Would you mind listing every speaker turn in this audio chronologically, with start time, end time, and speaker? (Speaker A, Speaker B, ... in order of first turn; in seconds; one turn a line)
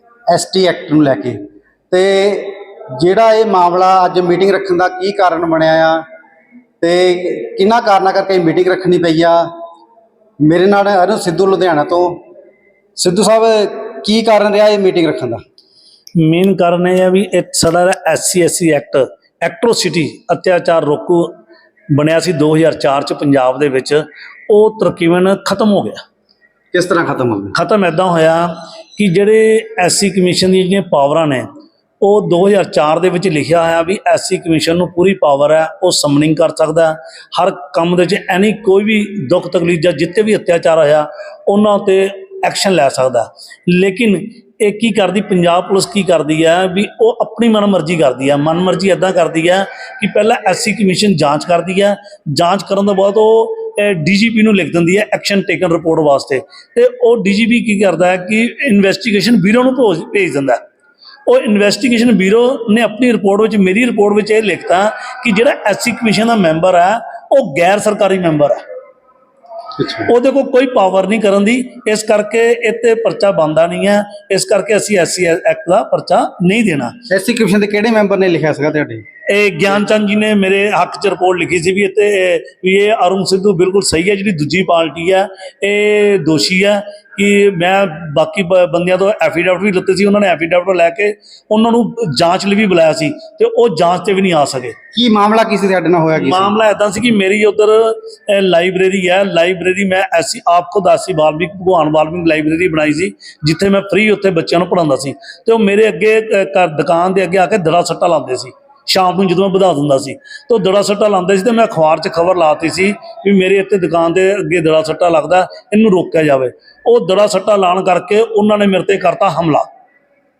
Speaker A: 0.3-6.0
Speaker A: 6.8-9.5
Speaker A: 10.4-12.2
Speaker A: 12.9-15.4
Speaker B: 16.2-21.3
Speaker B: 21.9-26.0
Speaker A: 26.7-27.6
Speaker B: 27.5-31.4
Speaker B: 32.0-60.6
Speaker B: 61.2-68.6
Speaker A: 69.8-70.1
Speaker B: 70.1-77.0
Speaker A: 77.1-79.0
Speaker B: 79.3-94.8
Speaker A: 94.9-96.5
Speaker B: 96.2-119.7